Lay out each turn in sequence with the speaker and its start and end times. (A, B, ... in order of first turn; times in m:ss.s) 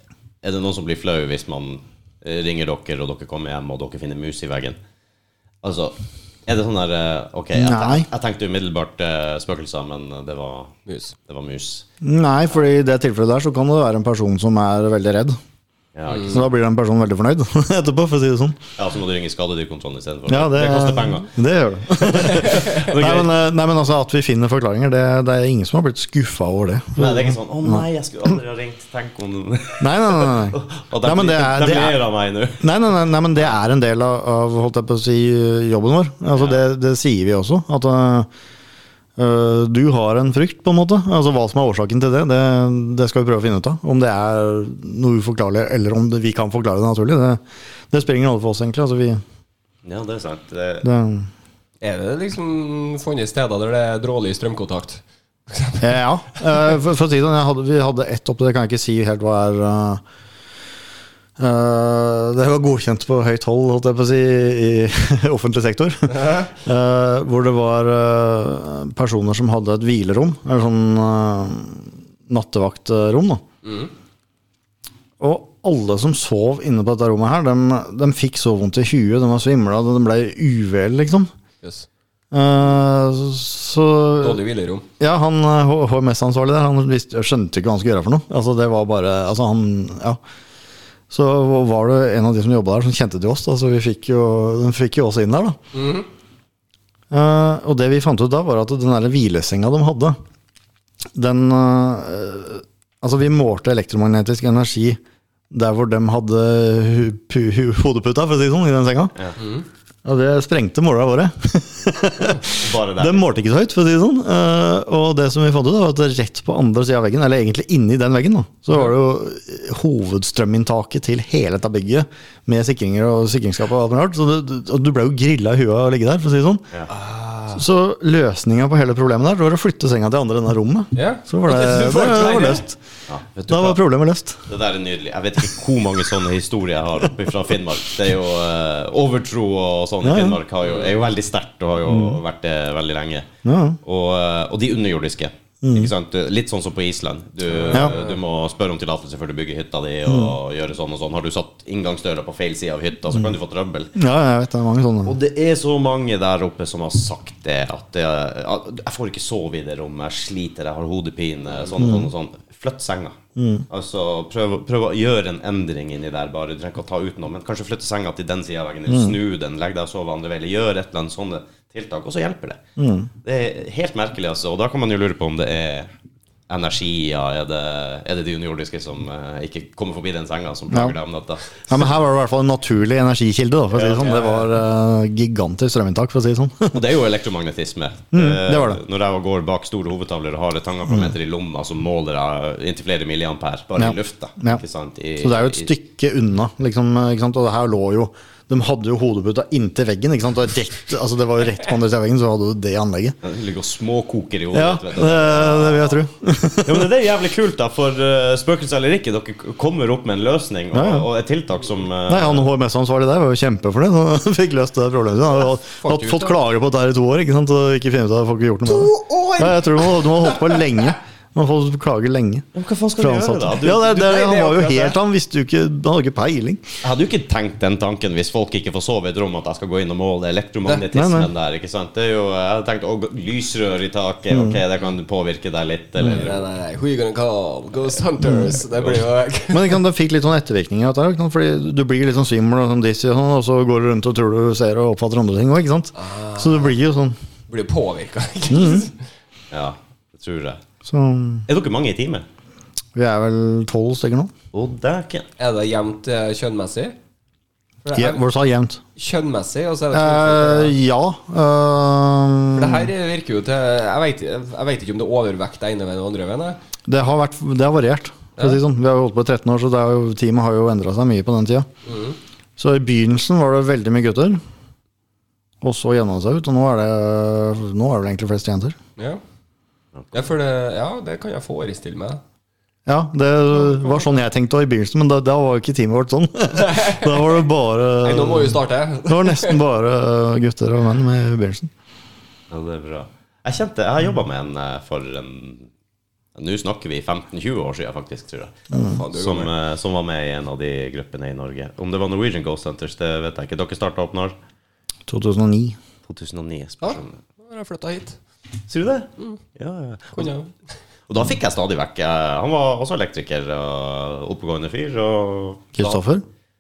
0:00.4-0:04.8 A
0:05.6-0:11.8 A
0:07.6-0:08.1 B
0:10.9-0:11.1 C
0:12.0-0:15.4 B
0:15.9-0:16.5 A
0:16.1-0:16.4 C
0:16.3-0:18.6 B
0:18.8-0:21.3 A
0:20.3-0:27.8 B
0:22.0-0:23.3 A
0:27.0-0:32.7 A
0:29.8-0:32.0 B
0:32.6-0:38.3 B
0:36.3-0:36.6 A
0:39.2-0:49.2 B
0:49.8-0:50.9 A
0:50.8-0:51.3 B
0:51.8-0:55.9 C
0:55.8-1:00.0 B
1:01.4-1:13.4 B
1:06.1-1:06.5 C
1:13.6-1:13.9 C
1:15.2-1:21.3 B
1:21.6-1:21.9 C
1:22.3-1:24.4 B
1:24.2-1:24.8 C
1:25.0-1:30.2 B
1:31.1-1:35.6 B
1:35.7-1:36.1 C
1:37.1-1:40.2 B
1:41.1-1:45.0 B
1:45.5-1:49.1 B
1:49.4-1:49.6 C
1:50.0-2:06.6 B
1:52.5-1:53.2 A
2:06.9-2:07.6 C
2:07.5-2:12.8 B
2:10.9-2:12.6 C
2:13.1-2:13.8 A
2:13.5-2:14.4 B
2:14.5-2:23.3 A
2:20.0-2:20.4 B
2:20.6-2:20.9 C
2:21.9-2:22.2 B
2:23.4-2:23.8 B
2:23.8-2:33.9 A
2:25.6-2:25.9 B
2:27.4-2:28.2 C
2:30.1-2:30.3 B
2:33.9-2:35.1 B
2:35.0-2:43.2 A
2:41.8-2:42.1 B
2:43.4-2:43.6 B
2:43.7-2:52.6 A
2:48.9-2:49.1 B
2:52.8-2:53.1 B
2:53.2-2:55.9 A
2:56.5-3:01.8 A
3:00.7-3:01.0 B
3:01.6-3:06.8 B
3:03.7-3:04.4 A
3:04.0-3:04.4 C
3:06.7-3:15.7 A
3:08.1-3:08.8 B
3:13.8-3:14.6 B
3:15.2-3:23.2 B
3:23.2-3:25.9 A
3:24.5-3:26.9 B
3:26.6-3:32.5 A
3:30.7-3:31.1 B
3:32.1-3:42.4 B
3:35.8-3:36.4 C
3:38.7-3:40.8 C
3:42.5-3:43.9 A
3:43.0-3:46.7 B
3:43.6-3:45.0 C
3:46.8-3:56.4 A
3:50.9-3:51.3 B
3:54.3-3:54.6 B
3:56.1-3:59.8 C
3:58.2-3:58.6 B
3:59.5-4:07.2 B
4:05.9-4:06.7 C
4:07.5-4:09.0 C
4:08.5-4:08.9 B
4:09.5-4:10.6 A
4:10.8-4:11.4 B
4:11.5-4:12.2 A
4:12.9-4:14.3 B
4:14.5-4:15.3 A
4:15.4-4:16.9 C
4:17.8-4:18.2 C
4:17.9-4:18.8 B
4:19.0-4:20.7 C
4:19.9-4:22.9 B
4:22.5-4:26.6 C
4:26.9-4:31.7 B
4:31.8-4:32.2 C
4:32.6-4:34.4 B
4:35.6-4:38.8 B
4:40.1-4:42.2 C
4:42.8-4:51.7 B
4:43.6-4:44.1 C
4:46.6-4:47.2 C
4:48.0-4:49.6 C
4:52.5-4:55.7 A
4:56.3-5:04.3 A
4:58.7-4:59.5 C
5:05.1-5:05.8 B
5:06.1-5:07.2 A
5:06.8-5:08.2 C
5:08.7-5:10.3 A
5:10.1-5:10.5 C
5:11.1-5:16.0 A
5:15.8-5:16.2 B